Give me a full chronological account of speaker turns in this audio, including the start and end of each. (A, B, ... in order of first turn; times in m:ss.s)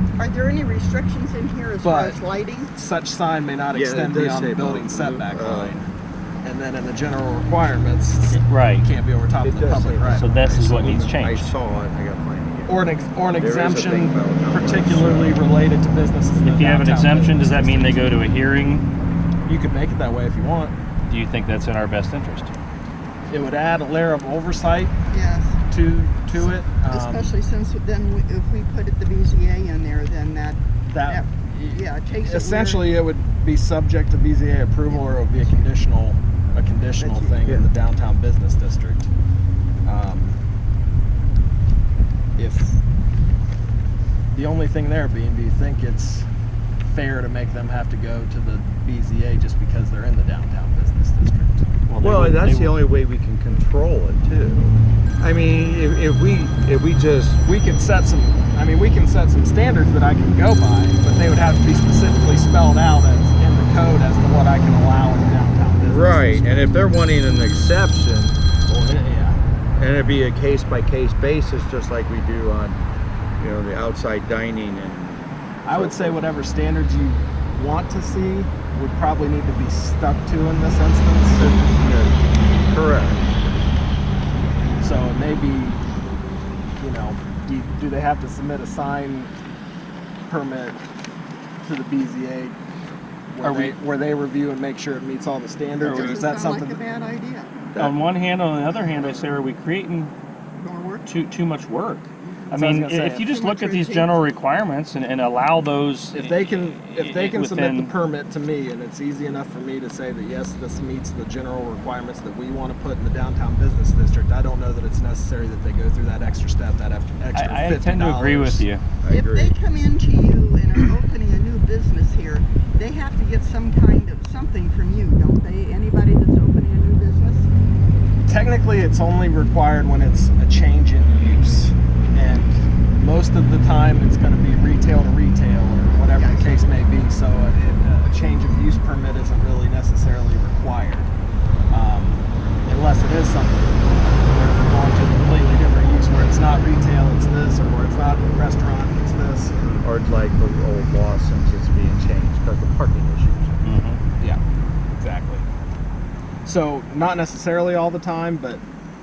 0:00.2-0:02.7 A
0:01.8-0:02.2 B
0:02.8-0:05.9 B
0:03.7-0:05.8 C
0:06.4-0:10.3 B
0:08.3-0:08.9 D
0:09.4-0:15.4 C
0:10.1-0:11.5 D
0:12.7-0:18.1 B
0:16.4-0:18.9 D
0:19.5-0:20.8 B
0:21.1-0:22.5 D
0:23.3-0:24.9 B
0:25.1-0:25.6 A
0:25.7-0:27.3 B
0:26.3-0:33.0 A
0:30.8-0:39.1 B
0:34.9-0:35.7 A
0:37.0-0:37.5 A
0:39.8-0:40.4 B
0:42.4-0:42.8 B
0:44.3-0:46.3 B
0:46.8-0:51.7 B
0:51.9-0:52.8 D
0:52.0-0:57.4 C
0:57.4-1:06.7 B
1:05.8-1:08.4 C
1:08.7-1:09.4 B
1:09.8-1:12.8 C
1:13.4-1:16.2 C
1:15.6-1:21.5 B
1:21.4-1:23.3 C
1:24.8-1:25.8 B
1:26.8-1:29.3 B
1:30.3-1:30.8 B
1:31.6-1:32.6 B
1:33.3-1:36.8 B
1:33.4-1:33.8 D
1:35.8-1:37.6 A
1:35.8-1:36.2 D
1:37.8-1:40.1 D
1:40.6-1:41.1 A
1:41.1-1:48.0 D
1:42.2-1:42.6 A
1:42.5-1:43.3 B
1:43.2-1:44.2 A
1:46.1-1:58.7 B
1:57.3-1:58.9 D
1:59.0-1:59.6 C
1:59.1-2:07.5 A
2:08.3-2:21.1 B
2:16.1-2:16.8 A
2:21.7-2:29.6 B
2:29.8-2:33.6 C
2:33.6-2:34.0 D
2:35.0-2:35.4 B
2:36.4-2:38.6 B